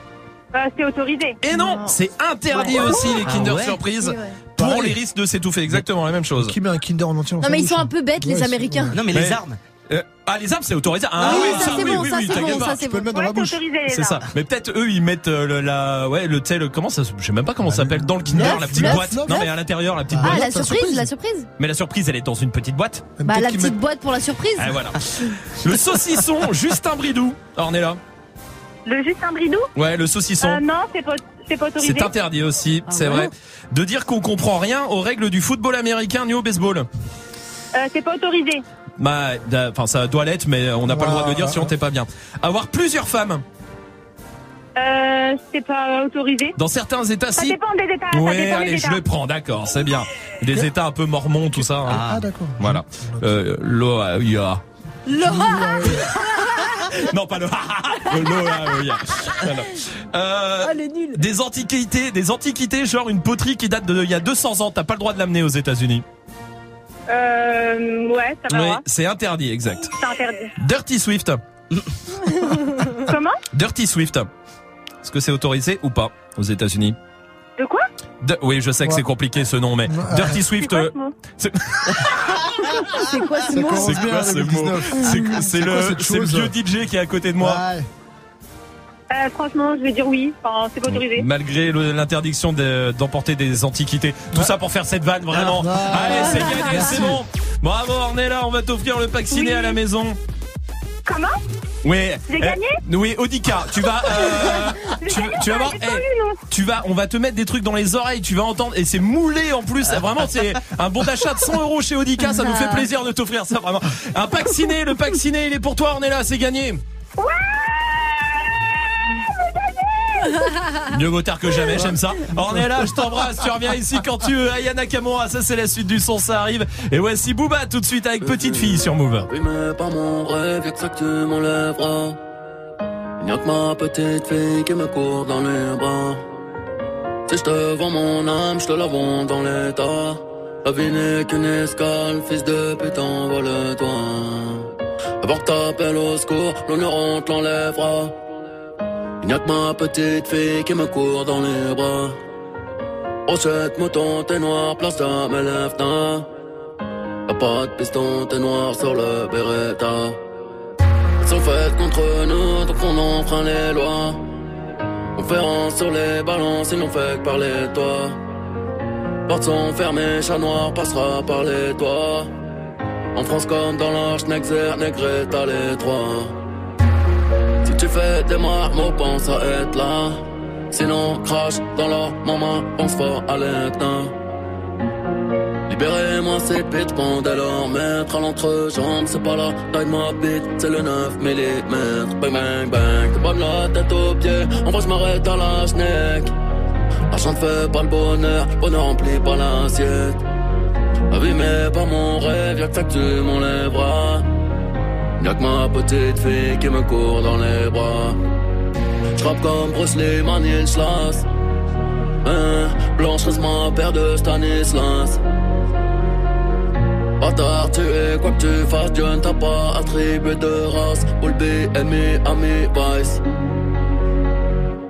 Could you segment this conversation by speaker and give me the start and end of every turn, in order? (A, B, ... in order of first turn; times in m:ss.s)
0:00.5-0:01.4 A
0:01.4-0:06.6 B
0:01.5-0:01.9 C
0:02.5-0:03.1 C
0:03.2-0:03.8 D
0:04.0-0:04.4 C
0:04.6-0:05.0 E
0:05.7-0:09.0 E
0:07.4-0:09.0 C
0:08.9-0:09.6 D
0:09.1-0:12.8 B
0:11.2-0:13.1 C
0:11.3-0:11.6 D
0:11.3-0:13.6 E
0:13.1-0:14.2 A
0:13.9-0:20.5 B
0:17.7-0:19.5 E
0:18.3-0:19.4 C
0:20.1-0:21.1 E
0:20.2-0:21.5 C
0:21.6-0:23.2 B
0:23.2-0:23.8 E
0:23.2-0:24.8 C
0:24.6-0:28.0 B
0:28.9-0:29.7 A
0:29.8-0:30.6 B
0:30.4-0:32.1 A
0:31.8-0:36.9 B
0:32.9-0:33.3 C
0:37.8-0:38.6 A
0:39.0-0:43.4 B
0:40.8-0:41.7 E
0:44.8-0:46.5 A
0:46.6-0:47.6 B
0:47.4-0:49.0 A
0:48.1-0:52.1 B
0:51.8-0:52.3 D
0:51.9-0:53.4 E
0:52.6-0:54.6 B
0:55.1-0:56.6 C
0:55.2-0:56.1 E
0:57.0-1:06.0 B
1:00.6-1:01.3 C
1:07.1-1:08.8 A
1:08.5-1:09.9 B
1:09.9-1:10.5 A
1:10.6-1:11.4 B
1:13.0-1:13.4 A
1:13.5-1:14.3 B
1:15.0-1:17.0 B
1:17.6-1:17.8 A
1:18.2-1:22.2 B
1:19.9-1:20.4 E
1:20.6-1:21.1 A
1:22.8-1:24.0 C
1:23.4-1:26.5 E
1:23.7-1:27.6 B
1:27.4-1:27.9 E
1:29.1-1:31.3 A
1:30.9-1:40.2 B
1:35.3-1:37.2 E
1:36.1-1:36.7 C
1:39.3-1:39.8 A
1:41.1-1:41.3 A
1:41.8-1:56.8 B
1:42.3-1:42.8 A
1:44.1-1:46.4 A
1:52.3-1:52.8 C
1:57.2-1:58.3 A
1:59.6-2:00.5 A
2:00.9-2:09.3 B
2:08.2-2:12.2 F
2:13.2-2:16.2 F
2:17.3-2:24.7 F
2:25.2-2:28.1 F
2:29.2-2:32.2 F
2:33.3-2:36.3 F
2:37.3-2:40.2 F
2:41.2-2:44.2 F
2:45.2-2:48.2 F
2:49.3-2:52.3 F
2:53.2-2:56.4 F
2:57.6-3:04.1 F
3:05.7-3:16.3 F
3:17.1-3:20.2 F
3:21.1-3:24.2 F
3:25.2-3:28.2 F
3:29.2-3:31.3 F
3:32.2-3:35.2 F
3:37.2-3:43.2 F